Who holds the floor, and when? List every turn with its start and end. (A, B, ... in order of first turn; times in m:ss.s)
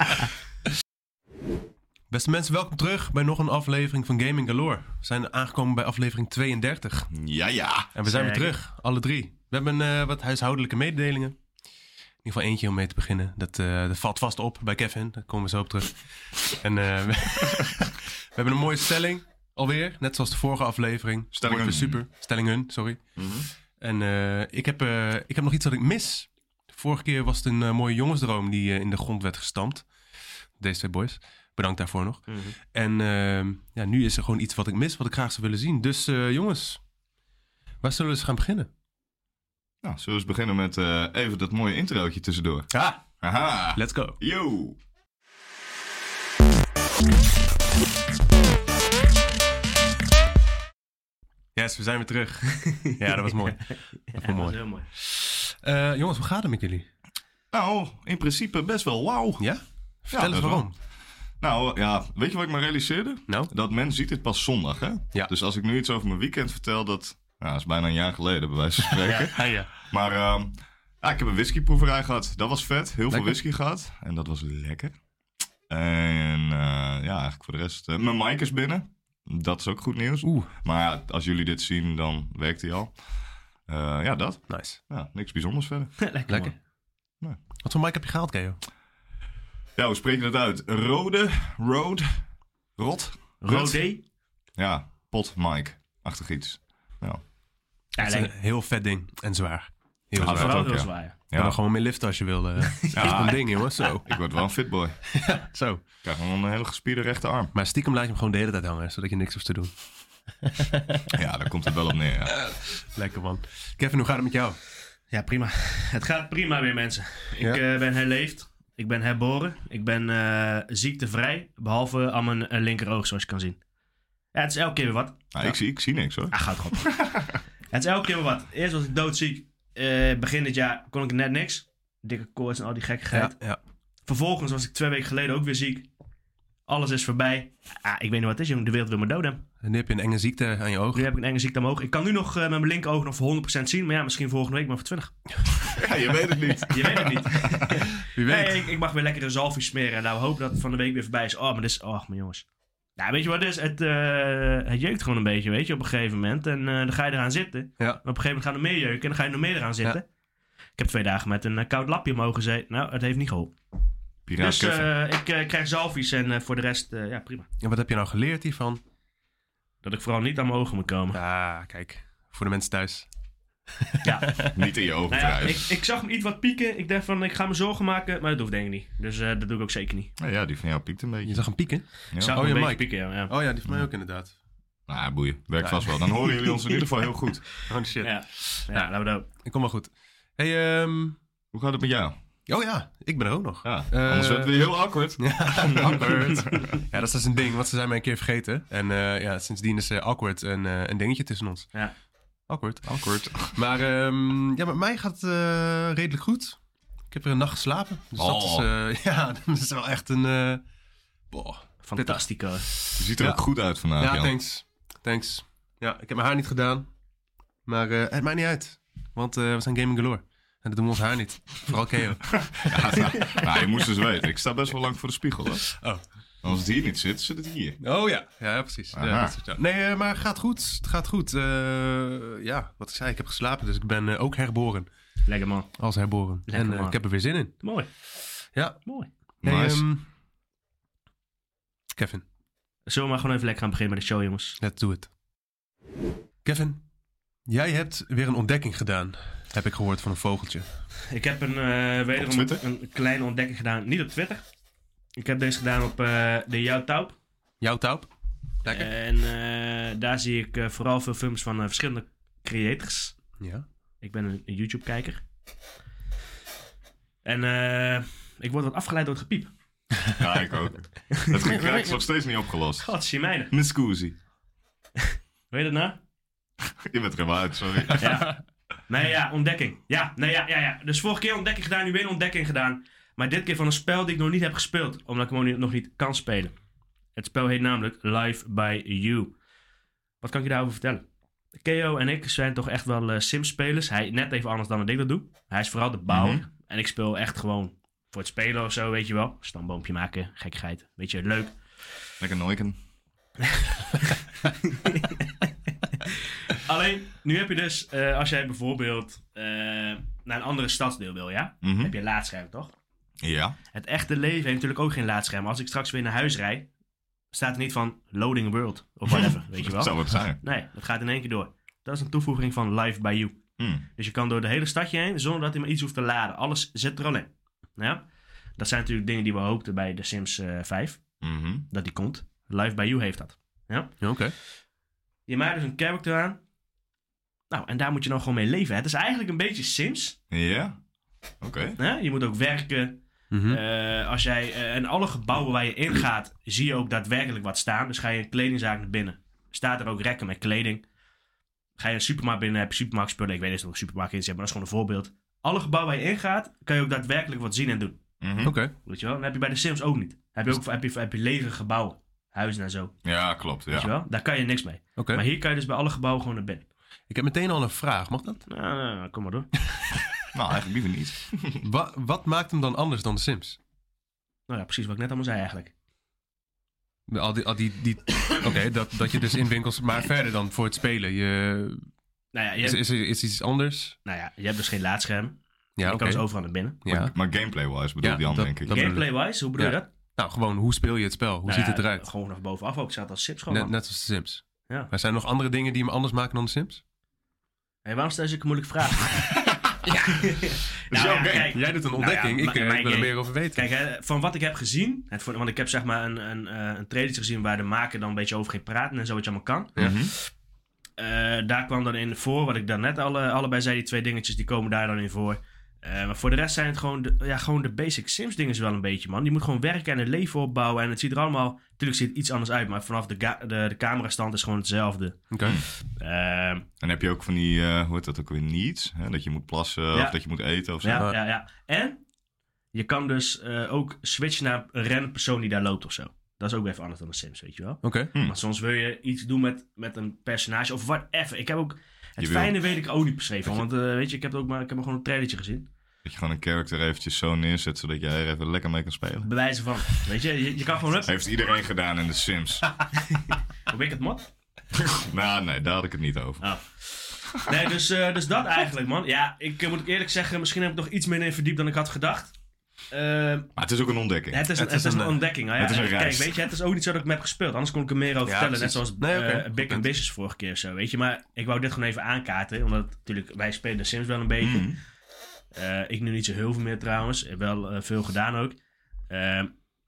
0:02.1-0:07.1 A
0:07.1-0:07.9 B
0:07.9-0:11.4 A
0:08.1-0:08.5 C
0:12.2-0:23.0 A
0:21.3-0:22.0 B
0:23.2-0:23.5 B
0:23.8-0:29.9 A
0:30.6-0:36.8 A
0:32.3-0:32.6 C
0:37.8-0:38.7 A
0:39.8-0:44.8 B
0:42.7-0:43.0 A
0:43.7-0:44.2 A
0:51.5-0:56.9 A
0:52.6-0:52.9 C
0:53.7-0:54.9 C
0:57.5-0:59.4 B
0:59.4-1:00.7 A
1:00.1-1:00.7 B
1:01.4-1:14.9 B
1:08.8-1:09.7 A
1:13.1-1:13.3 A
1:15.7-1:23.0 B
1:20.2-1:20.5 A
1:23.6-1:25.9 B
1:24.5-1:24.8 A
1:26.0-1:26.5 C
1:26.3-1:26.5 A
1:27.6-1:28.6 A
1:29.8-1:32.2 B
1:32.8-1:33.8 B
1:33.4-1:34.0 C
1:34.6-1:37.2 B
1:38.0-1:44.1 A
1:38.0-1:38.3 C
1:40.2-1:41.6 B
1:40.3-1:41.2 C
1:42.8-1:43.3 C
1:42.9-1:43.4 B
1:44.0-1:45.0 B
1:45.1-1:45.8 A
1:46.0-1:47.5 B
1:47.5-1:49.7 A
1:50.4-1:51.1 A
1:51.1-1:52.4 B
1:52.3-1:54.6 A
1:55.1-2:03.6 C
2:04.3-2:05.3 C
2:05.3-2:07.4 B
2:06.3-2:07.0 C
2:07.7-2:13.3 C
2:13.1-2:13.6 A
2:14.0-2:15.9 C
2:16.7-2:19.4 C
2:19.6-2:21.1 A
2:20.9-2:25.1 C
2:25.5-2:27.6 B
2:26.7-2:32.4 C
2:28.0-2:28.7 A
2:33.0-2:40.0 C
2:40.8-2:43.5 C
2:44.3-2:44.9 B
2:44.4-2:47.5 C
2:47.6-2:48.8 A
2:49.8-2:51.2 C
2:51.1-2:53.1 A
2:53.7-2:54.5 A
2:54.0-2:54.5 C
2:54.5-2:55.6 B
2:55.1-3:00.1 C
3:00.2-3:01.5 B
3:01.2-3:04.3 A
3:02.1-3:02.4 B
3:02.2-3:03.3 C
3:04.9-3:07.5 B
3:05.6-3:06.5 A
3:07.7-3:08.9 A
3:08.0-3:09.3 C
3:09.4-3:11.2 A
3:11.5-3:12.2 B
3:12.5-3:14.6 A
3:13.6-3:16.7 B
3:15.2-3:21.7 A
3:22.5-3:22.9 A
3:22.8-3:23.6 B
3:23.5-3:26.6 A
3:27.1-3:30.6 A
3:28.2-3:28.7 B
3:31.3-3:33.4 A
3:31.8-3:32.7 C
3:33.0-3:34.3 B
3:34.0-3:36.9 A
3:37.6-3:43.1 A
3:42.4-3:45.7 B
3:45.6-3:46.0 A
3:46.4-3:47.8 B
3:47.8-3:54.9 A
3:48.9-3:49.3 B
3:55.2-3:55.8 C
3:55.8-3:57.6 A
3:56.5-3:57.9 C
3:59.4-3:59.8 B
3:59.4-4:00.0 A
4:01.9-4:02.2 A
4:02.9-4:04.6 C
4:04.6-4:05.1 A
4:06.4-4:06.8 A
4:07.5-4:10.6 A
4:11.1-4:14.4 C
4:12.2-4:12.6 B
4:15.2-4:17.2 C
4:17.6-4:18.1 A
4:18.6-4:18.9 A
4:18.6-4:23.2 C
4:23.4-4:23.6 A
4:24.0-4:25.2 C
4:27.2-4:29.5 C
4:30.1-4:32.9 B
4:31.1-4:32.0 C
4:32.8-4:33.5 C
4:33.5-4:34.2 B
4:35.0-4:36.0 C
4:36.7-4:38.2 B
4:38.0-4:46.5 C
4:38.0-4:38.3 A
4:47.2-4:49.3 C
4:50.2-4:51.0 C
4:51.6-5:01.6 C
4:56.1-4:56.4 B
5:02.2-5:02.8 B
5:03.6-5:05.3 C
5:06.0-5:12.7 C
5:11.6-5:11.9 B
5:13.2-5:13.6 B
5:13.7-5:16.7 C
5:17.3-5:28.0 C
5:19.1-5:20.4 B
5:23.6-5:23.8 B
5:28.6-5:31.0 C
5:31.2-5:31.6 B
5:31.7-5:34.0 C
5:34.0-5:34.3 A
5:35.3-5:36.4 C
5:37.5-5:40.2 C
5:40.3-5:40.8 B
5:41.4-5:41.8 B
5:41.8-5:50.8 C
5:43.3-5:43.6 A
5:51.8-5:58.0 C
5:58.2-5:58.6 B
5:58.4-5:58.7 A
5:58.8-6:03.0 C
6:03.0-6:03.9 B
6:03.7-6:06.6 C
6:05.0-6:05.2 A
6:07.1-6:08.4 A
6:08.5-6:09.5 C
6:10.3-6:11.6 B
6:11.6-6:13.6 A
6:14.5-6:15.7 C
6:17.1-6:21.8 A
6:22.3-6:22.8 C
6:22.6-6:24.0 A
6:24.0-6:26.8 C
6:25.8-6:26.2 A
6:26.8-6:27.1 A
6:26.9-6:29.0 B
6:28.0-6:32.0 A
6:28.7-6:29.9 C
6:31.4-6:33.7 C
6:33.5-6:36.8 A
6:37.8-6:39.3 C
6:39.8-6:49.9 C
6:40.9-6:41.5 B
6:41.5-6:43.6 A
6:49.8-6:50.1 B
6:51.0-7:06.6 C
7:05.3-7:05.6 A
7:06.8-7:11.0 B
7:10.8-7:12.0 C
7:12.7-7:25.7 C
7:17.8-7:18.1 A
7:22.2-7:22.6 B
7:26.0-7:29.3 B
7:29.2-7:31.1 C
7:31.0-7:32.7 B
7:33.7-7:34.3 C
7:34.7-7:36.4 B
7:36.4-7:42.3 C
7:42.9-7:43.5 C
7:43.6-7:44.4 B
7:44.3-7:54.7 C
7:44.5-7:45.2 A
7:45.6-7:46.3 B
7:48.2-7:49.9 A
7:54.4-7:54.8 B
7:55.5-7:58.6 C
7:59.1-7:59.5 C